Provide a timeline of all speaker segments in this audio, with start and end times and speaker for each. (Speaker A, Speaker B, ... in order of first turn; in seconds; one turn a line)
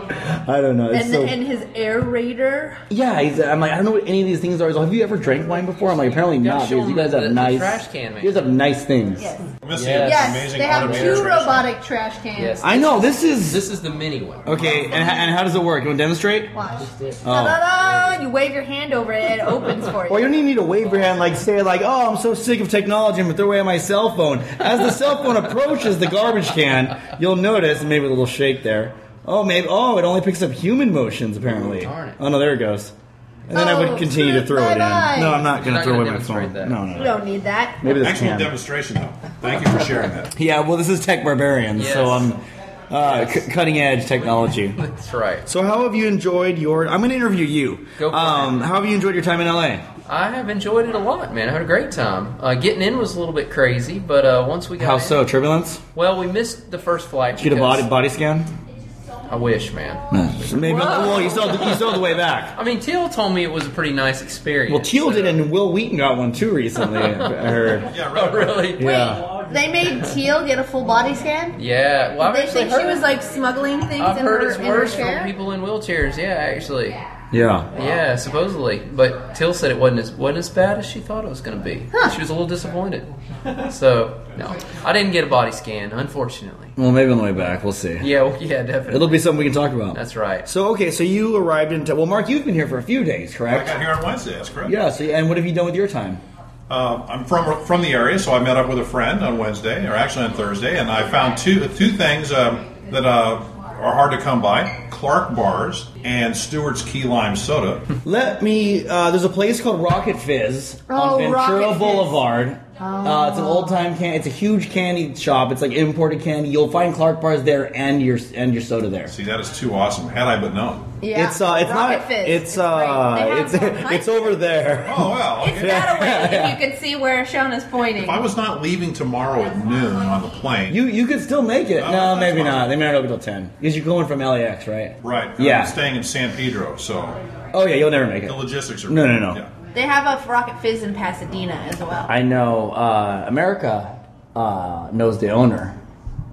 Speaker A: 0.3-1.4
Speaker B: 0.9-2.8
Speaker A: 2.9-9.3
Speaker C: 6.1-8.4
Speaker B: 9.2-9.4
Speaker D: 9.6-11.7
Speaker C: 9.7-11.5
Speaker B: 10.0-12.6
Speaker C: 12.3-14.5
Speaker A: 12.6-13.6
Speaker A: 14.4-16.5
Speaker D: 14.5-15.1
Speaker B: 16.5-20.3
Speaker A: 17.2-17.6
Speaker A: 20.1-32.9
Speaker C: 31.6-32.2
Speaker A: 33.5-37.2
Speaker B: 33.5-35.5
Speaker C: 35.5-36.8
Speaker B: 36.9-37.8
Speaker A: 37.8-38.5
Speaker D: 37.9-40.3
Speaker A: 40.3-44.8
Speaker C: 41.7-42.3
Speaker C: 43.0-43.5
Speaker C: 44.2-45.5
Speaker A: 45.4-49.8
Speaker C: 48.0-48.6
Speaker C: 50.0-55.2
Speaker A: 54.8-55.8
Speaker C: 55.9-57.9
Speaker A: 57.4-58.5
Speaker C: 59.3-65.4
Speaker A: 60.1-62.6
Speaker B: 60.7-61.4
Speaker A: 64.7-67.9
Speaker C: 66.8-69.0
Speaker D: 67.9-68.8
Speaker A: 68.8-69.4
Speaker B: 68.8-71.6
Speaker C: 71.5-73.0
Speaker B: 72.2-75.3
Speaker C: 74.0-77.0
Speaker A: 77.3-77.7
Speaker C: 77.7-83.1
Speaker C: 83.6-86.8
Speaker A: 86.8-88.1
Speaker C: 88.0-89.3
Speaker A: 88.9-93.8
Speaker C: 89.9-90.5
Speaker D: 93.5-94.8
Speaker A: 94.6-96.2
Speaker D: 96.7-107.8
Speaker A: 108.0-119.1
Speaker B: 110.9-112.2
Speaker B: 112.8-113.8
Speaker D: 119.1-120.8
Speaker B: 121.0-124.6
Speaker A: 121.1-126.6
Speaker D: 124.8-125.8
Speaker B: 125.4-128.3
Speaker D: 128.0-130.8
Speaker A: 130.7-135.8
Speaker D: 131.7-132.8
Speaker D: 135.0-137.2
Speaker A: 137.5-139.4
Speaker D: 138.2-139.5
Speaker B: 139.7-142.1
Speaker A: 142.1-145.8